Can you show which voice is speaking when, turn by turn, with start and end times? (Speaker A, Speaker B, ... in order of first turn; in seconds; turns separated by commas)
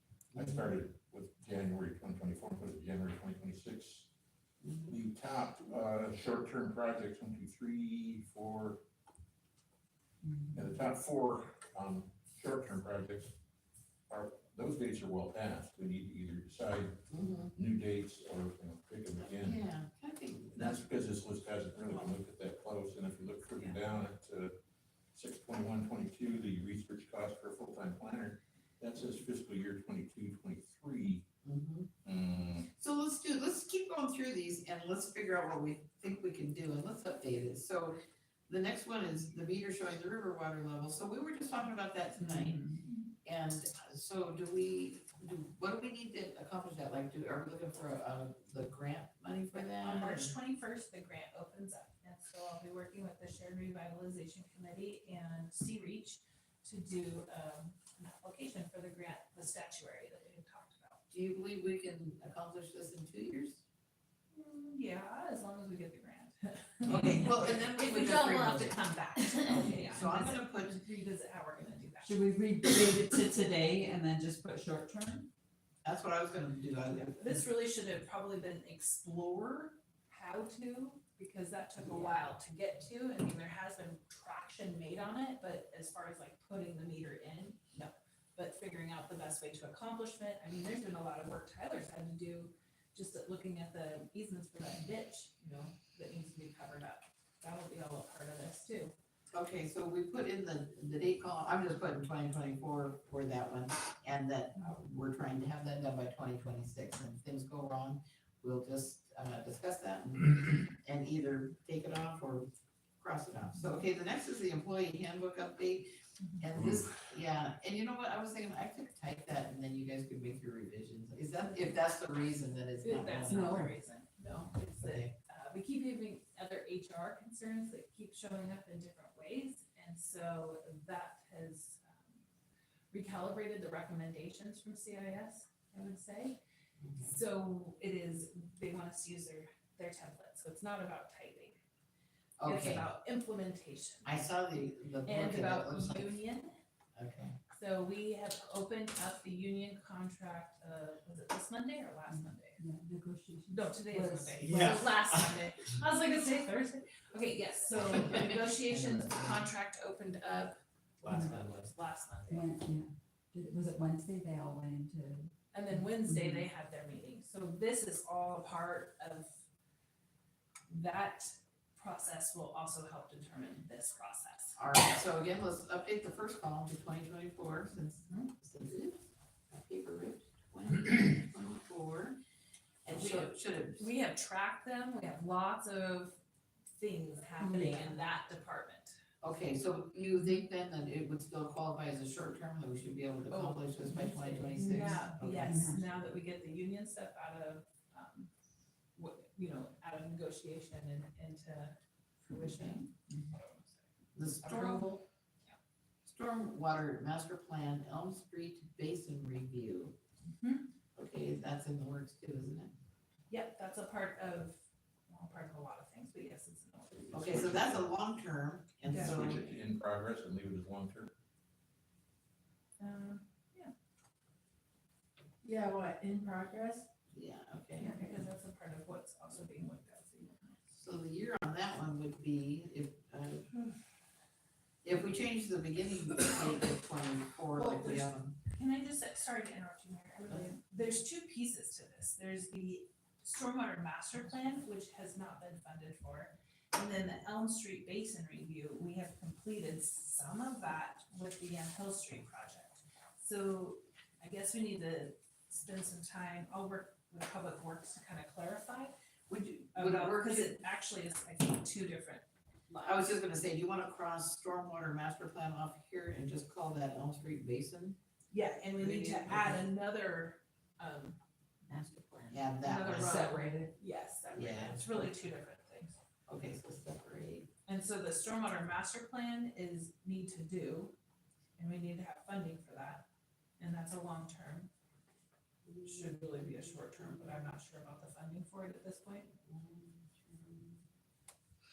Speaker A: 0.3-0.7, Speaker B: 0.3-4.1, Speaker A: 4.6-4.9, Speaker B: 4.8-8.8, Speaker C: 10.3-10.5, Speaker B: 10.5-13.3, Speaker B: 14.1-19.6, Speaker A: 17.1-17.5, Speaker A: 19.4-20.8, Speaker B: 20.5-24.5, Speaker B: 25.1-31.2, Speaker A: 31.4-31.9, Speaker B: 32.0-32.7, Speaker A: 32.7-38.0, Speaker A: 38.5-42.6, Speaker C: 42.2-42.8, Speaker A: 43.2-50.3, Speaker D: 49.5-61.0, Speaker A: 61.1-63.6, Speaker D: 64.3-72.1, Speaker A: 66.8-68.8, Speaker C: 66.9-67.2, Speaker A: 69.4-70.8, Speaker C: 72.0-75.3, Speaker A: 75.8-77.4, Speaker D: 77.2-98.9, Speaker C: 81.8-82.2, Speaker A: 99.3-112.5, Speaker A: 113.0-123.6, Speaker D: 122.8-132.2, Speaker C: 123.3-123.7, Speaker A: 124.8-125.1, Speaker D: 132.9-136.4, Speaker A: 136.8-137.1, Speaker D: 137.0-141.5, Speaker A: 142.4-142.9, Speaker D: 142.4-144.1, Speaker A: 144.0-146.2, Speaker D: 145.1-146.6, Speaker A: 146.9-147.4, Speaker D: 147.5-152.6, Speaker C: 152.1-154.7, Speaker D: 153.5-162.5, Speaker A: 154.4-155.2, Speaker A: 157.8-159.4, Speaker A: 161.0-161.7, Speaker C: 162.3-165.3, Speaker D: 165.5-169.3, Speaker D: 170.7-174.6, Speaker A: 174.6-182.2, Speaker A: 182.8-183.9, Speaker D: 182.9-186.2, Speaker D: 186.8-188.9, Speaker C: 187.4-188.0, Speaker A: 189.2-195.8, Speaker D: 193.3-198.3, Speaker C: 193.9-196.0, Speaker D: 198.9-203.8, Speaker A: 202.5-202.8, Speaker A: 204.2-205.0, Speaker D: 204.4-205.6, Speaker A: 206.0-209.9, Speaker D: 210.4-210.7, Speaker A: 210.9-212.7, Speaker D: 213.3-217.8, Speaker A: 217.1-219.5, Speaker B: 218.8-221.1, Speaker D: 218.9-219.3, Speaker D: 222.8-223.7, Speaker D: 225.4-226.9, Speaker A: 227.1-228.0, Speaker D: 227.8-230.6, Speaker A: 230.7-233.5, Speaker A: 234.8-238.3, Speaker D: 237.5-258.9, Speaker A: 259.3-260.5, Speaker D: 259.7-263.0, Speaker A: 262.8-268.0, Speaker D: 268.3-276.0, Speaker A: 268.8-269.6, Speaker A: 272.3-273.3, Speaker C: 273.0-273.7, Speaker A: 274.3-274.9, Speaker A: 276.3-277.5, Speaker D: 277.6-280.9, Speaker D: 281.6-283.0, Speaker D: 283.6-284.7, Speaker A: 285.6-287.6, Speaker D: 285.8-289.3, Speaker A: 289.4-290.8